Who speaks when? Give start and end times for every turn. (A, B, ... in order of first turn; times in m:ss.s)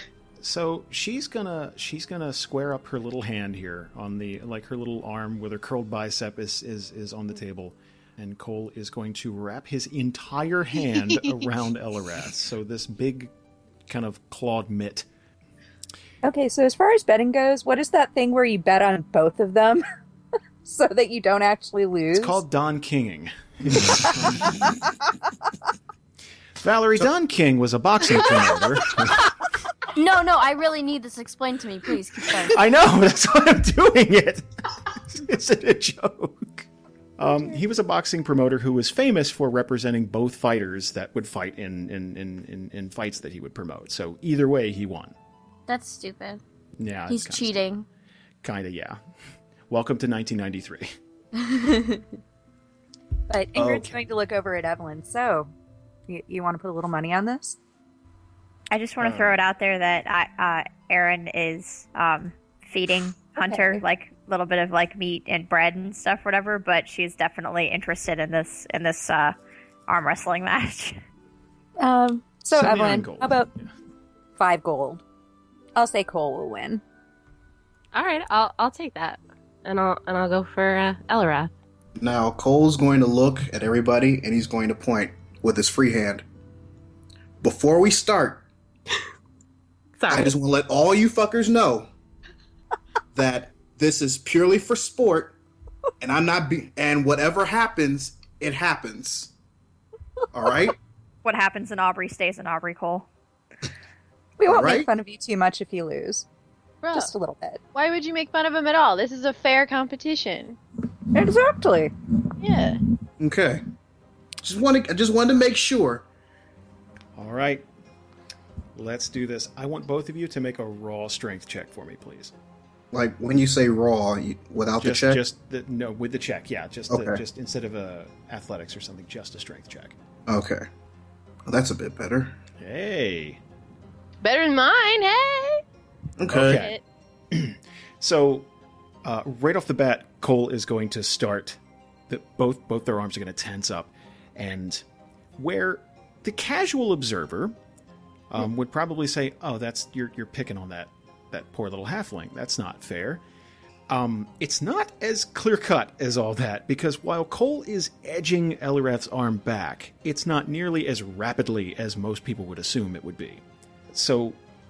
0:00.4-0:13.3 A
0:13.9-0:15.1 A
0:16.2-0:19.8 B
0:20.6-0:22.4 B
0:22.1-0:24.7 A
0:26.6-0:29.5 A
0:29.9-0:32.6 C
0:32.4-0:36.7 A
0:37.2-0:45.1 A
0:45.7-0:46.4 C
0:46.8-0:47.6 A
0:47.1-0:47.9 C
0:48.4-0:49.0 A
0:49.7-0:50.9 A
0:51.3-0:52.0 C
0:53.3-0:55.5 B
0:53.5-0:54.0 A
0:56.1-0:57.6 B
0:58.7-1:09.3 D
0:59.0-0:59.4 A
1:03.4-1:03.8 B
1:09.9-1:11.0 D
1:11.8-1:13.5 B
1:12.5-1:13.7 A
1:14.4-1:15.0 B
1:15.8-1:16.8 B
1:17.9-1:21.5 E
1:22.0-1:26.2 F
1:27.4-1:28.4 F
1:30.0-1:30.3 E
1:30.1-1:31.9 F
1:33.1-1:35.4 F
1:36.0-1:39.3 F
1:40.3-1:40.8 F
1:41.2-1:43.1 D
1:44.4-1:46.3 B
1:44.4-1:44.9 F
1:46.8-1:47.1 G
1:46.9-1:47.6 B
1:47.7-1:50.6 G
1:51.1-1:51.9 B
1:52.4-1:52.8 G
1:53.2-1:53.6 F
1:54.4-1:56.0 F
1:57.2-1:57.6 A
1:58.7-2:02.3 A
2:02.9-2:05.2 F
2:04.8-2:10.0 A
2:06.9-2:07.2 F
2:10.3-2:10.7 F
2:11.5-2:12.4 F
2:12.6-2:13.4 A
2:14.2-2:15.6 G
2:16.2-2:16.6 F
2:16.3-2:16.8 A
2:16.4-2:16.8 G
2:17.3-2:18.5 A
2:19.0-2:21.6 A
2:22.1-2:24.8 A
2:25.4-2:27.5 A
2:28.3-2:33.2 A
2:33.9-2:44.4 A